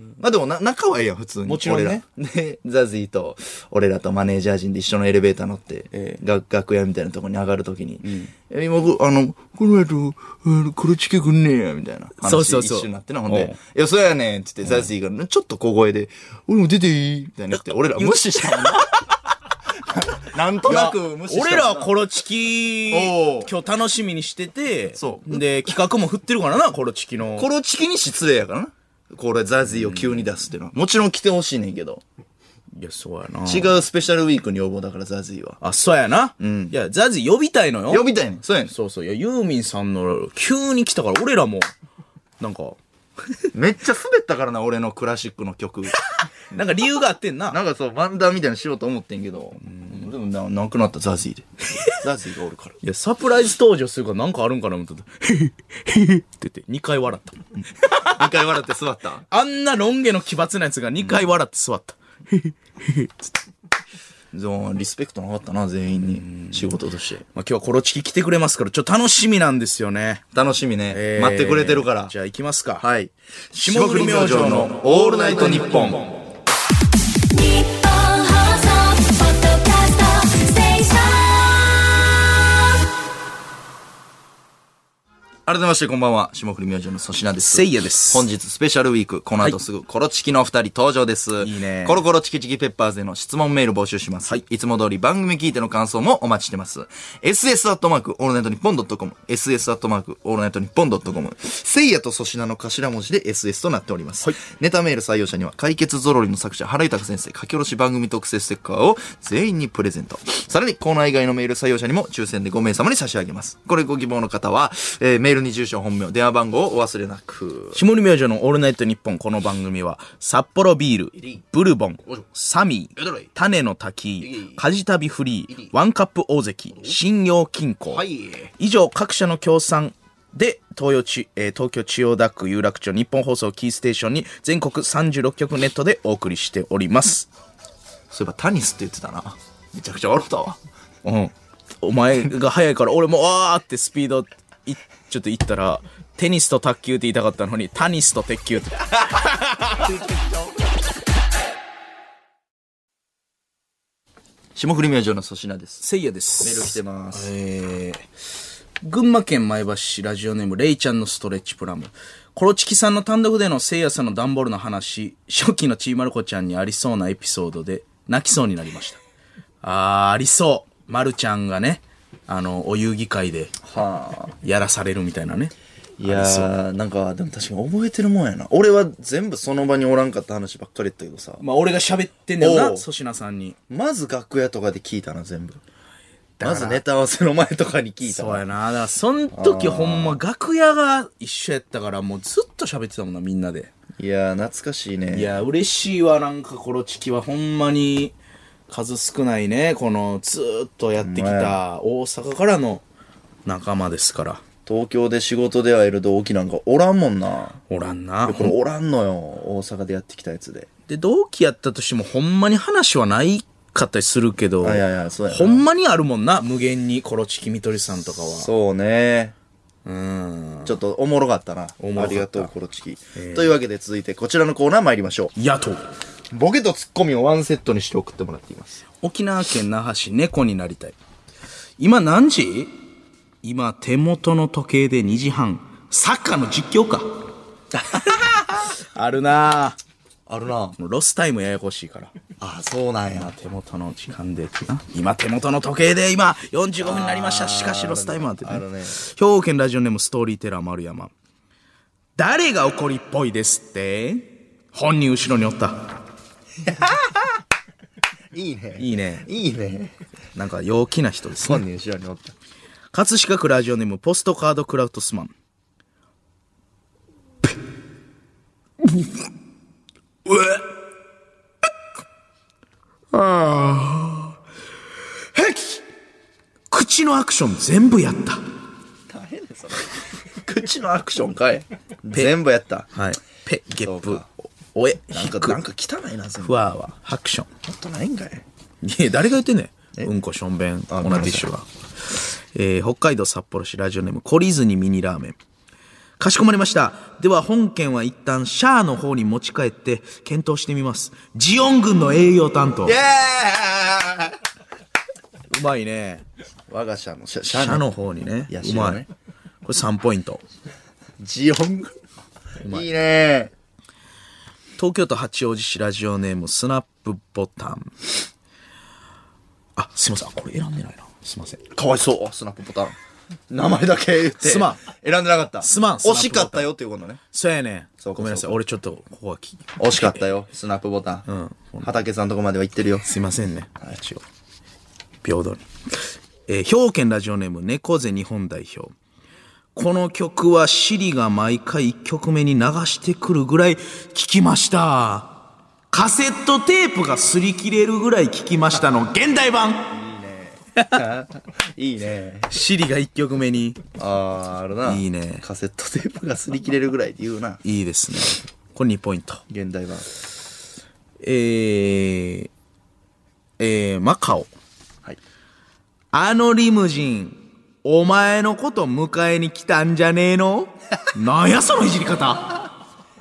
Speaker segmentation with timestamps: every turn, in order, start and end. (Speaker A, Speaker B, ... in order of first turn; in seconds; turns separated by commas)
Speaker A: 0.2-19.0, Speaker B: 1.4-2.0, Speaker B: 5.9-6.2, Speaker B: 8.0-8.3, Speaker B: 12.2-13.6, Speaker B: 18.0-18.9, Speaker A: 19.9-21.9, Speaker B: 20.6-27.5, Speaker A: 22.9-23.5, Speaker A: 24.9-25.4, Speaker A: 27.4-32.0, Speaker B: 29.7-30.2, Speaker B: 32.7-33.7, Speaker A: 33.5-35.6, Speaker B: 35.6-38.1, Speaker A: 36.4-36.7, Speaker A: 37.9-38.7, Speaker B: 38.7-41.7, Speaker B: 42.4-42.8, Speaker A: 43.5-46.0, Speaker B: 46.2-47.6, Speaker A: 47.5-52.8, Speaker B: 49.7-50.0, Speaker B: 52.8-58.1, Speaker A: 57.9-59.2, Speaker B: 59.3-63.3, Speaker A: 64.3-67.2, Speaker B: 66.0-66.7, Speaker B: 67.3-70.2, Speaker A: 70.3-72.1, Speaker B: 70.9-72.8, Speaker A: 72.8-76.1, Speaker B: 73.5-76.1, Speaker C: 77.3-81.7, Speaker A: 85.5-117.8, Speaker B: 87.4-88.3, Speaker B: 91.4-92.0, Speaker B: 117.7-128.0, Speaker A: 123.0-123.2, Speaker A: 124.2-124.6, Speaker A: 127.9-128.5, Speaker B: 128.6-137.3, Speaker A: 138.1-140.6, Speaker B: 141.0-149.9, Speaker A: 149.8-150.6, Speaker A: 154.6-155.8, Speaker B: 155.8-158.1, Speaker A: 156.4-157.3, Speaker B: 158.8-169.0, Speaker B: 169.6-173.6, Speaker A: 173.6-174.3, Speaker B: 174.4-175.5, Speaker A: 176.0-181.4, Speaker B: 176.0-176.5, Speaker B: 181.4-183.6, Speaker A: 182.4-182.8, Speaker A: 183.7-185.6, Speaker B: 186.4-186.8, Speaker A: 186.4-188.4, Speaker B: 188.0-193.7, Speaker A: 189.3-190.2, Speaker A: 194.0-195.3, Speaker B: 195.1-198.1, Speaker B: 198.7-202.8, Speaker A: 201.0-201.6, Speaker B: 203.4-204.4, Speaker A: 204.7-207.6, Speaker B: 207.7-208.5, Speaker A: 208.2-210.7, Speaker B: 210.9-218.5, Speaker A: 214.6-215.6, Speaker A: 218.3-219.3, Speaker B: 219.8-220.7, Speaker A: 220.6-225.3, Speaker B: 221.8-222.5, Speaker B: 223.1-223.5, Speaker B: 225.3-225.8, Speaker A: 226.3-228.8, Speaker B: 229.0-230.9, Speaker B: 231.8-232.8, Speaker B: 233.4-237.1, Speaker B: 238.0-239.8, Speaker A: 240.3-240.8, Speaker B: 240.8-242.1, Speaker A: 242.4-243.3, Speaker B: 243.1-251.1, Speaker A: 246.8-249.0, Speaker B: 252.2-255.9, Speaker A: 256.6-257.4, Speaker A: 258.3-259.9, Speaker B: 258.8-259.3, Speaker B: 260.3-261.6, Speaker A: 261.4-262.3, Speaker B: 262.9-265.3, Speaker B: 270.2-270.7, Speaker B: 273.1-274.3, Speaker B: 275.3-275.8, Speaker B: 276.7-278.4, Speaker A: 279.1-282.9, Speaker B: 282.9-285.6, Speaker A: 283.8-284.2, Speaker A: 285.1-286.6, Speaker B: 286.4-287.5, Speaker A: 287.6-288.4, Speaker B: 288.8-295.4, Speaker A: 290.9-291.5, Speaker B: 296.2-303.0, Speaker A: 302.8-304.4, Speaker B: 305.5-306.2, Speaker A: 306.7-307.9, Speaker B: 307.5-309.0, Speaker A: 308.5-309.1, Speaker B: 309.6-310.4, Speaker A: 311.2-312.0, Speaker B: 312.6-312.9, Speaker A: 312.6-313.5, Speaker B: 314.8-318.1, Speaker B: 319.8-321.6, Speaker A: 321.7-322.9, Speaker A: 323.5-327.2, Speaker B: 324.4-324.8, Speaker B: 325.6-326.7, Speaker B: 327.3-330.2, Speaker A: 328.0-328.6, Speaker A: 329.8-331.3, Speaker B: 331.3-332.0, Speaker A: 331.8-333.1, Speaker B: 333.0-334.2, Speaker B: 335.2-338.9, Speaker B: 339.7-345.4, Speaker B: 345.9-349.9, Speaker A: 349.9-352.5, Speaker B: 352.5-353.8, Speaker A: 353.9-357.6, Speaker B: 354.8-355.4, Speaker B: 357.6-359.4, Speaker A: 359.5-360.1, Speaker B: 361.2-362.5, Speaker B: 363.6-364.5, Speaker B: 366.1-372.7